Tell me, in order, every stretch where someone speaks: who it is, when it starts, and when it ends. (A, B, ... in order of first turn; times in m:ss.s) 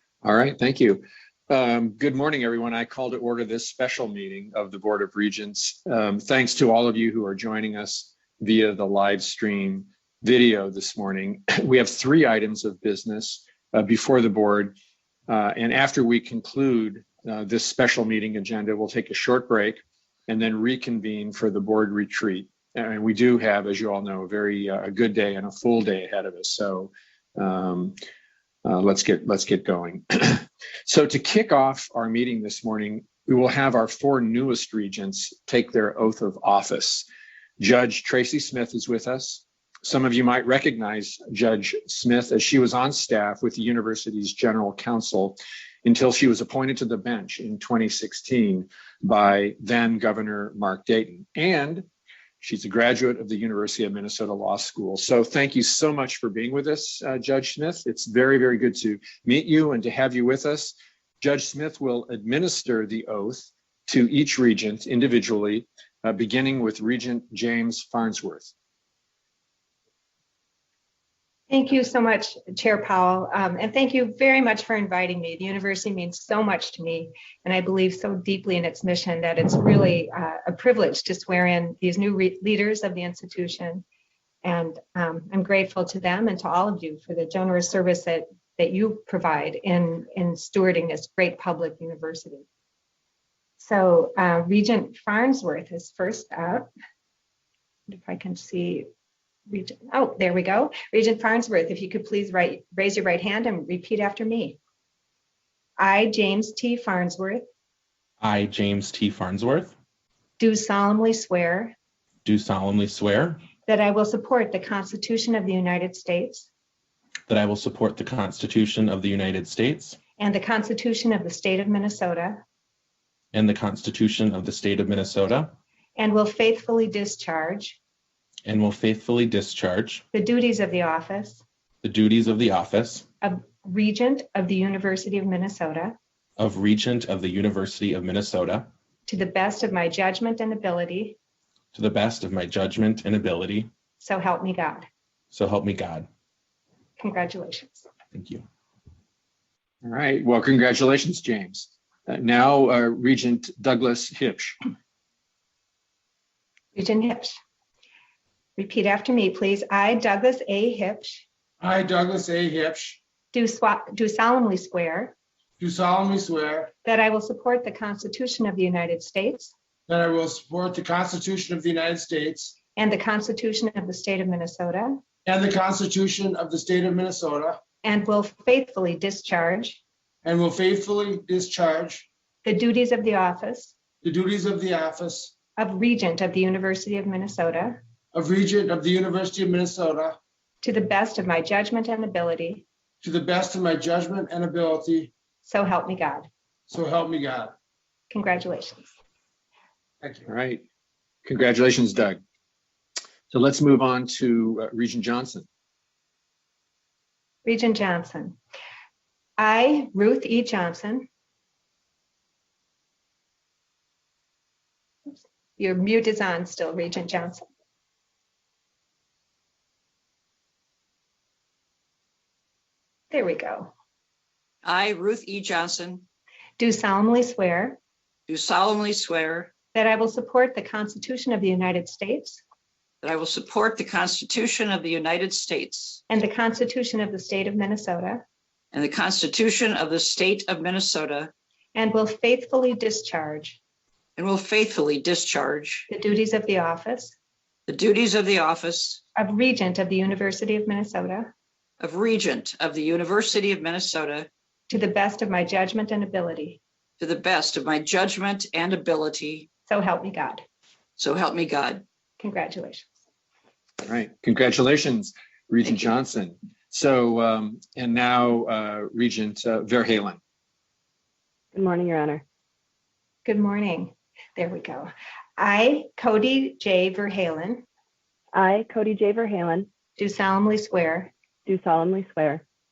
0:00.2-0:14.7 A
0:15.3-0:28.0 A
0:28.6-0:37.1 A
0:37.6-0:51.8 A
0:52.4-1:08.5 A
1:11.5-1:23.8 B
1:24.4-1:32.4 B
1:33.6-1:36.7 B
1:37.9-1:38.8 B
1:39.5-1:44.6 B
1:45.8-1:47.4 B
1:48.2-1:49.7 C
1:50.4-1:51.7 B
1:52.2-1:53.4 C
1:53.6-1:56.5 B
1:57.3-2:00.0 C
2:00.2-2:02.4 B
2:03.3-2:05.5 C
2:06.0-2:07.8 B
2:08.4-2:10.0 C
2:10.1-2:11.4 B
2:11.8-2:13.1 C
2:13.2-2:16.0 B
2:16.4-2:18.7 C
2:19.0-2:21.2 B
2:21.7-2:23.7 C
2:24.0-2:24.9 B
2:25.3-2:26.1 C
2:27.0-2:27.8 B
2:28.1-2:28.4 C
2:29.8-2:34.6 A
2:36.7-2:37.4 B
2:38.6-2:41.2 B
2:41.6-2:43.0 D
2:43.3-2:45.1 B
2:45.6-2:46.7 D
2:46.8-2:49.5 B
2:49.9-2:52.6 D
2:52.8-2:55.0 B
2:55.2-2:57.6 D
2:57.8-2:59.8 B
3:00.2-3:02.1 D
3:02.4-3:03.7 B
3:04.0-3:05.3 D
3:05.6-3:07.8 B
3:08.1-3:10.2 D
3:10.6-3:12.6 B
3:13.0-3:15.1 D
3:15.4-3:16.3 B
3:16.7-3:17.5 D
3:18.1-3:18.9 B
3:20.3-3:20.6 A
3:21.2-3:22.2 A
3:23.3-3:25.4 A
3:27.4-3:28.4 B
3:29.4-3:31.1 B
3:35.6-3:37.4 B
3:43.1-3:43.7 B
3:44.6-3:46.0 E
3:46.6-3:47.8 B
3:48.3-3:49.5 E
3:49.7-3:52.4 B
3:53.0-3:56.0 E
3:56.1-3:58.2 B
3:58.7-4:01.3 E
4:01.7-4:03.6 B
4:04.2-4:05.9 E
4:05.9-4:07.1 B
4:07.7-4:09.0 E
4:09.2-4:11.3 B
4:11.8-4:14.3 E
4:14.7-4:16.6 B
4:17.0-4:19.5 E
4:19.7-4:20.4 B
4:21.0-4:21.8 E
4:22.2-4:22.9 B
4:23.8-4:30.2 A
4:31.5-4:32.2 F
4:33.2-4:37.6 B
4:38.3-4:39.7 F
4:40.0-4:41.1 B
4:41.4-4:42.4 F